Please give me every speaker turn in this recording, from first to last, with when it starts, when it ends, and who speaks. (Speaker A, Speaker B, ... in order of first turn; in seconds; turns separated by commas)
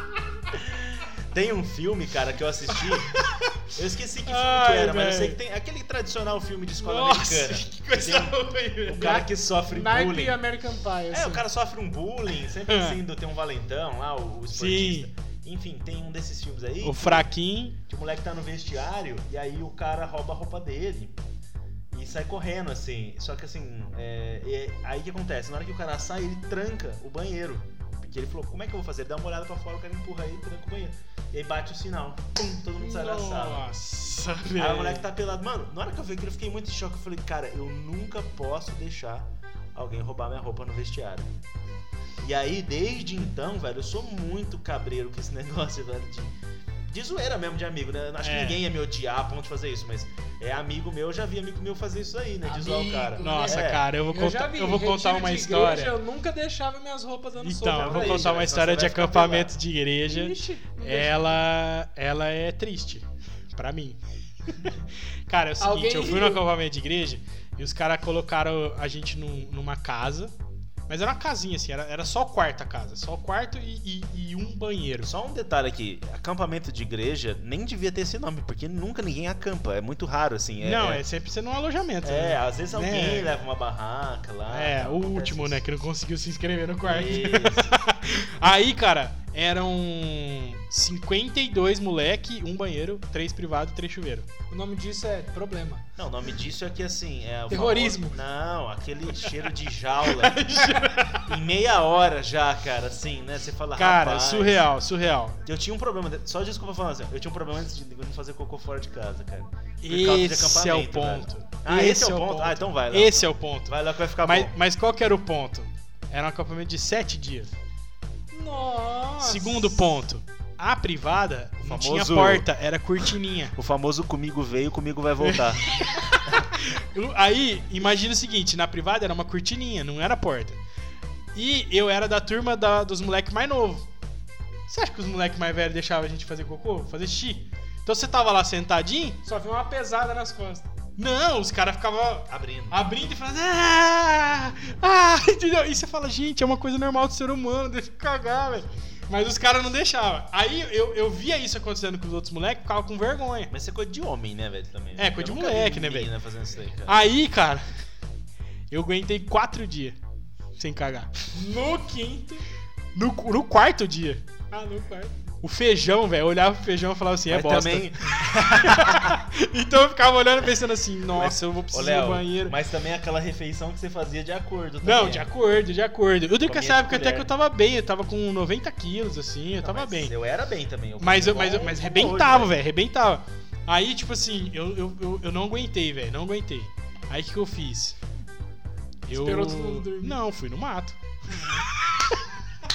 Speaker A: 0.5-3.1, Speaker B: 2.7-3.5, Speaker A: 3.7-10.4, Speaker B: 4.3-5.4, Speaker B: 6.8-9.2, Speaker C: 9.0-11.4, Speaker A: 11.1-17.3, Speaker B: 12.7-13.0, Speaker B: 14.5-15.1, Speaker B: 16.8-17.8, Speaker A: 17.9-21.2, Speaker A: 21.9-33.7, Speaker B: 32.8-35.1, Speaker A: 34.6-41.5, Speaker A: 42.2-46.4, Speaker A: 46.9-53.9, Speaker B: 48.2-48.6, Speaker C: 52.4-58.3, Speaker B: 53.2-56.0, Speaker B: 57.4-70.3, Speaker A: 57.7-59.6, Speaker C: 60.0-61.4, Speaker C: 65.6-66.4, Speaker B: 70.9-75.1, Speaker A: 75.0-81.0, Speaker B: 80.6-83.3, Speaker A: 82.0-85.7, Speaker B: 84.5-94.3, Speaker A: 86.8-87.8, Speaker C: 94.5-95.9, Speaker A: 96.0-100.6, Speaker C: 97.5-98.2, Speaker B: 100.0-101.3, Speaker A: 101.2-104.7, Speaker B: 103.8-105.4, Speaker A: 105.5-114.5, Speaker B: 109.8-117.5, Speaker C: 118.3-119.9, Speaker B: 119.2-123.5, Speaker A: 121.6-122.5, Speaker A: 123.5-125.8, Speaker B: 125.2-130.6, Speaker B: 131.3-133.9, Speaker B: 134.7-139.2, Speaker C: 139.2-140.7, Speaker B: 141.0-153.5, Speaker A: 142.3-142.8, Speaker A: 153.5-157.0, Speaker B: 155.0-156.1, Speaker B: 156.9-157.7, Speaker B: 158.7-160.0, Speaker B: 160.6-161.1, Speaker C: 161.3-162.4, Speaker B: 162.9-164.3, Speaker C: 164.5-165.2, Speaker B: 165.4-172.6, Speaker A: 167.3-169.2, Speaker A: 171.1-175.3, Speaker B: 174.8-180.1, Speaker A: 176.4-177.3, Speaker A: 179.6-182.6, Speaker B: 181.0-188.0, Speaker B: 189.1-192.2, Speaker C: 189.1-190.2